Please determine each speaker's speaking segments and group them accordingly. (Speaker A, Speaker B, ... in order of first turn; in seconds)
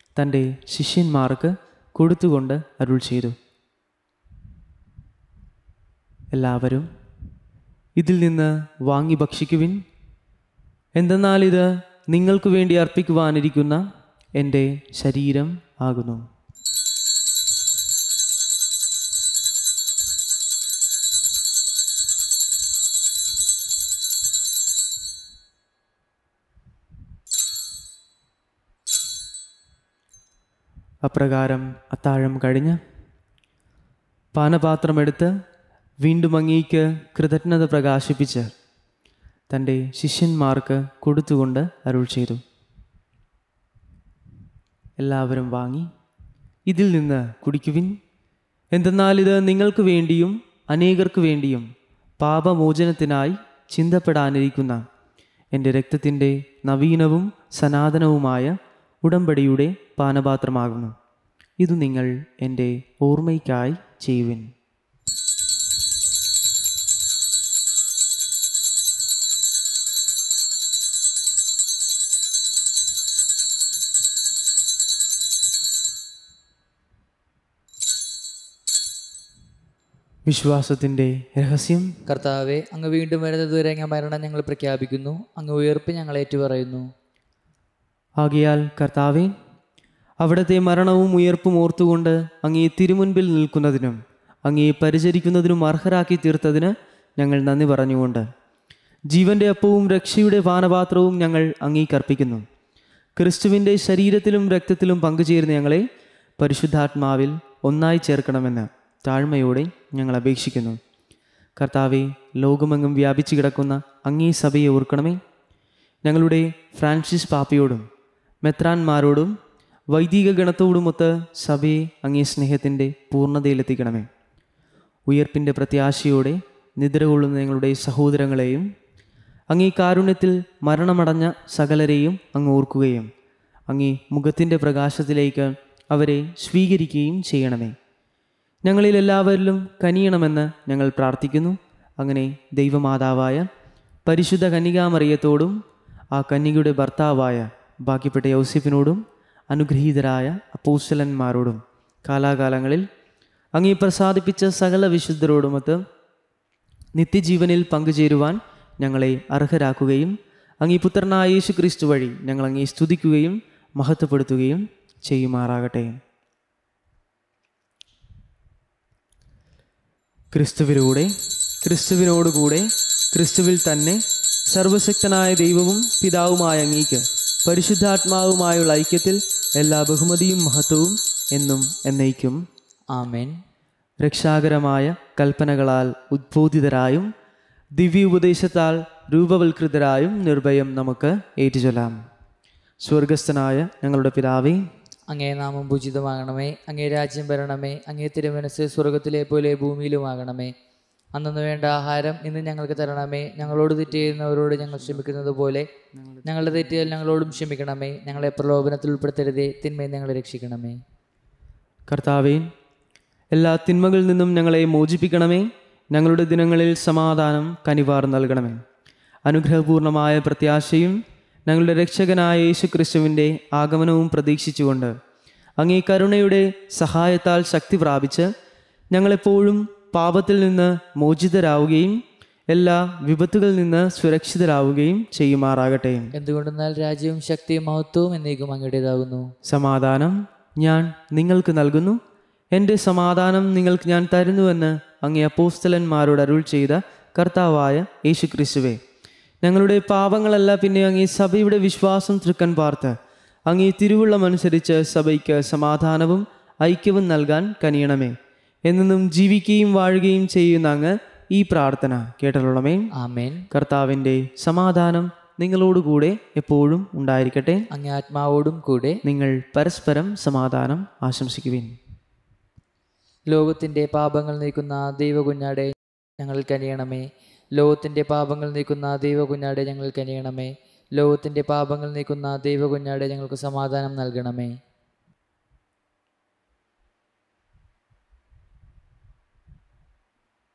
Speaker A: 0.1-3.4, 6.3-6.9, 8.0-9.8, 11.0-13.8, 14.4-16.2, 31.0-32.8, 34.3-35.3, 36.0-38.5, 39.5-42.4, 45.0-45.9, 46.7-48.0, 48.7-51.6, 52.2-54.8, 55.5-60.9, 61.6-64.5, 80.3-81.9, 88.2-89.3, 90.2-98.3, 99.1-102.4, 103.2-105.8, 106.4-110.8, 111.6-115.2, 116.0-117.8, 118.4-119.3, 119.9-124.1, 125.1-128.7, 129.5-133.1, 133.7-137.7, 138.6-143.5, 144.1-145.6, 146.1-152.8, 153.6-155.8, 156.9-165.9, 170.3-182.4, 184.0-187.1, 187.8-192.0, 192.8-194.6, 203.7-205.2, 205.9-207.2, 211.9-212.5, 213.3-218.6, 219.2-224.9, 225.6-228.3, 228.9-232.0, 232.5-236.1, 239.5-242.0, 242.5-248.8, 249.4-252.9, 253.5-258.1, 258.7-262.9, 263.5-267.6, 269.0-271.8
Speaker B: 82.1-86.8, 182.9-183.3, 195.1-200.5, 201.1-205.7, 206.2-210.8, 236.1-239.3, 262.9-263.4, 267.7-269.0, 273.3-284.5